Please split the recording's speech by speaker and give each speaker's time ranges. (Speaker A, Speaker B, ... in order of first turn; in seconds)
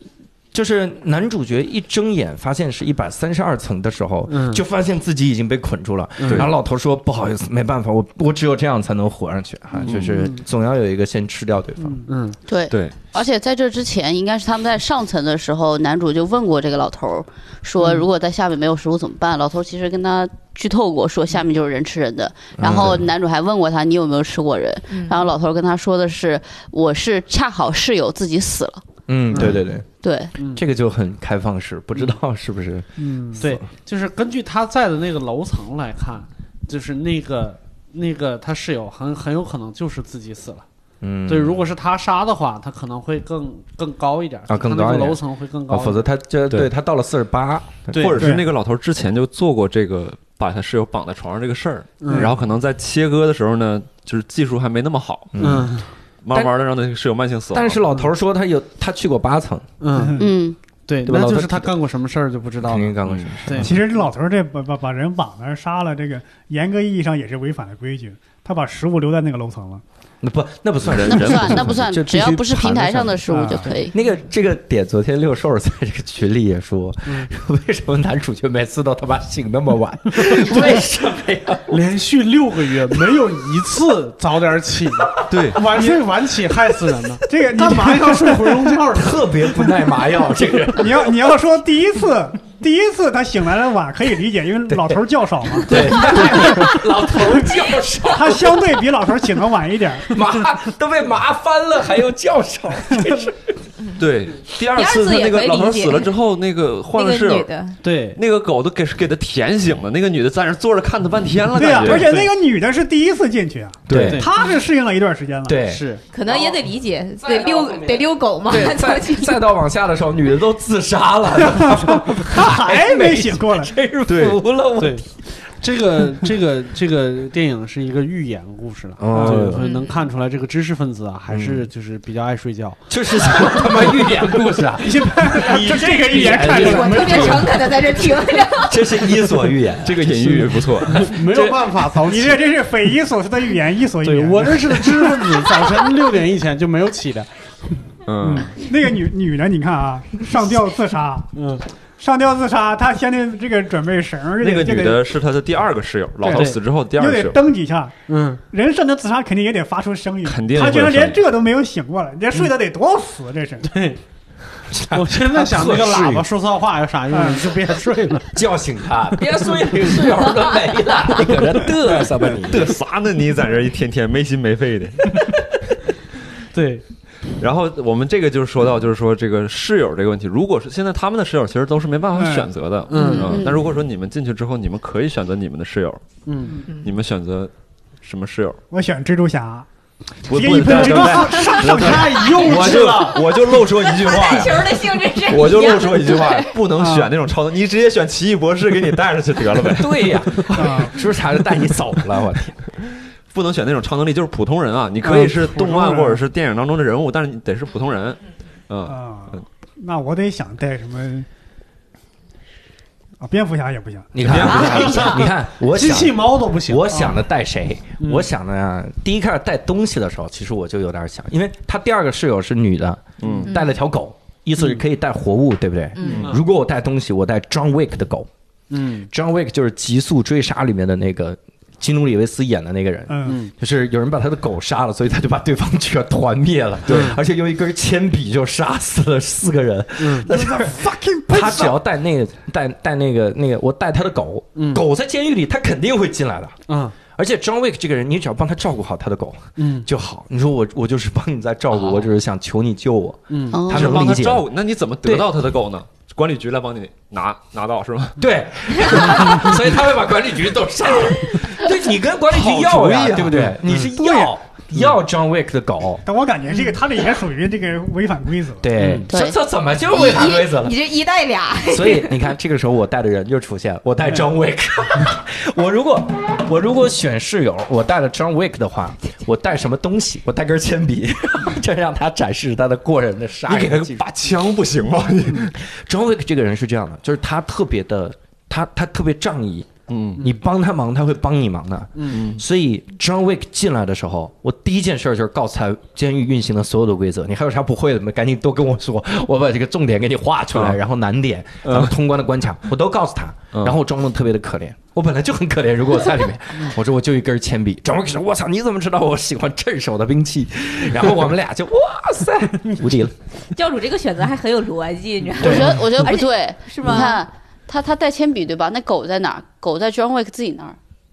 Speaker A: 0.5-12.0, 22.6-23.1, 29.1-29.9, 30.5-33.6, 41.0-41.6, 44.5-48.1, 55.3-55.7, 57.5-59.7, 61.0-61.7, 62.6-63.8, 70.2-81.8, 82.9-83.2, 85.3-85.6, 88.9-91.1, 94.7-95.0, 95.6-98.7, 100.1-103.4, 113.9-114.3, 115.5-115.8, 117.2-125.1, 129.0-129.6, 131.3-131.7, 132.9-140.5, 164.7-166.3, 168.3-172.8, 199.7-202.6, 214.1-228.3, 229.1-246.5, 247.1-254.5, 258.2-266.0, 268.6-270.8, 271.7-284.0, 285.5-313.1
Speaker B: 4.3-4.6, 6.2-6.5, 12.1-12.4, 29.3-29.6, 30.4-30.6, 33.4-40.6, 41.3-46.0, 47.9-48.4, 52.0-52.4, 55.4-55.9, 59.8-60.2, 60.9-63.8, 80.2-80.8, 81.7-89.3, 95.7-96.7, 107.8-108.2, 111.9-112.3, 113.9-114.3, 115.6-116.0, 124.8-125.0, 125.6-133.8, 136.1-136.6, 140.3-142.4, 144.0-147.3, 151.3-151.6, 156.3-156.6, 158.1-158.4, 163.6-164.0, 164.9-168.3, 176.5-176.8, 182.9-183.4, 186.2-186.6, 190.6-193.3, 214.6-217.1, 218.0-218.3, 226.1-226.4, 228.7-229.1, 236.9-237.2, 240.0-240.3, 244.6-244.8, 246.7-247.0, 249.6-249.9, 253.3-253.7, 291.9-292.2, 315.4-315.9
Speaker C: 6.2-6.5, 9.8-10.2, 12.7-13.0, 47.9-55.6, 56.2-57.8, 63.0-63.4, 70.8-71.8, 85.3-85.6, 104.0-107.5, 108.2-112.2, 124.1-124.4, 139.8-141.2, 148.1-148.5, 154.4-157.4, 160.2-161.2, 172.4-175.4, 177.4-186.0, 186.8-187.5, 188.0-188.6, 190.3-200.2, 203.3-209.4, 214.2-215.0, 223.2-223.5, 236.9-237.1, 253.7-258.2, 262.3-263.6, 283.5-285.6, 289.9-290.2, 292.1-292.4, 301.6-301.9
Speaker D: 11.8-12.1, 33.0-33.4, 48.2-48.4, 59.9-60.3, 63.6-69.8, 73.3-73.7, 87.3-88.7, 90.8-96.8, 98.1-100.1, 111.5-115.6, 121.5-123.7, 134.8-137.4, 142.1-145.6, 148.2-151.3, 152.0-155.0, 156.2-157.9, 158.4-163.8, 167.1-167.4, 182.1-182.5, 188.7-189.7, 190.3-192.2, 196.8-197.1, 200.5-201.0, 205.0-206.2, 208.9-211.3, 213.2-214.1, 233.1-233.4, 240.2-241.8, 263.7-264.3, 266.0-268.7
Speaker E: 12.5-28.8, 30.0-30.3, 60.2-60.6, 71.1-73.9, 183.2-183.6, 253.5-254.1, 269.1-269.4, 315.4-320.8
Speaker F: 24.9-25.3, 104.7-106.1, 106.9-107.8, 116.1-119.4, 129.6-130.0, 136.4-139.2, 193.8-196.5, 223.4-223.7, 225.9-226.2, 269.9-272.2, 313.5-317.2